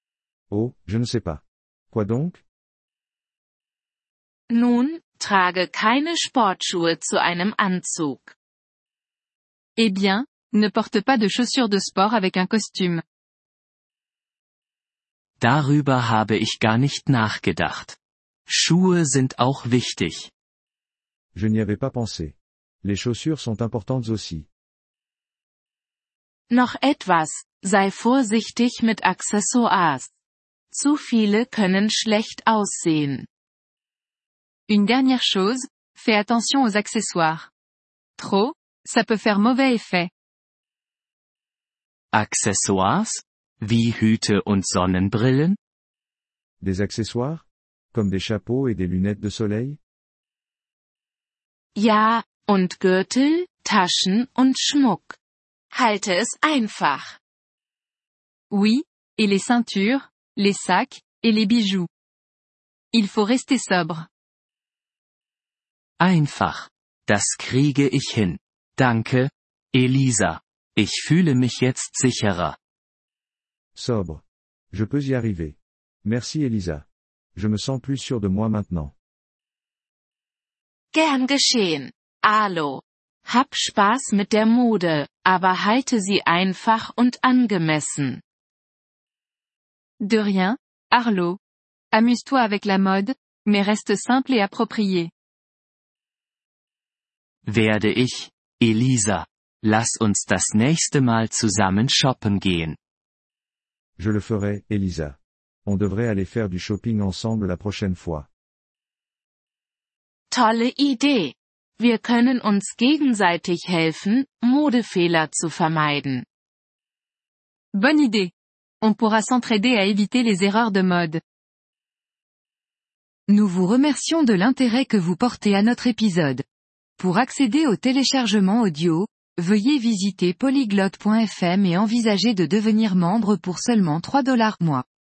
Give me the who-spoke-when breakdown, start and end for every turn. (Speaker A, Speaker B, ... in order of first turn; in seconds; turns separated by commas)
Speaker A: 0.5-2.4, Speaker B: 4.5-8.3, Speaker C: 9.8-13.0, Speaker D: 15.4-20.3, Speaker A: 21.3-24.5, Speaker B: 26.5-30.1, Speaker B: 30.7-33.3, Speaker C: 34.7-37.5, Speaker C: 38.2-40.1, Speaker D: 42.1-45.6, Speaker A: 46.6-49.8, Speaker B: 51.8-55.2, Speaker B: 55.7-57.2, Speaker C: 58.5-61.9, Speaker C: 62.9-64.1, Speaker D: 66.0-72.6, Speaker A: 73.7-78.9, Speaker B: 80.9-88.2, Speaker C: 90.0-91.4, Speaker C: 91.9-95.1, Speaker D: 97.5-102.8, Speaker A: 104.0-108.3, Speaker B: 110.3-116.2, Speaker C: 117.7-121.2, Speaker E: 123.3-126.4, Speaker E: 127.0-134.8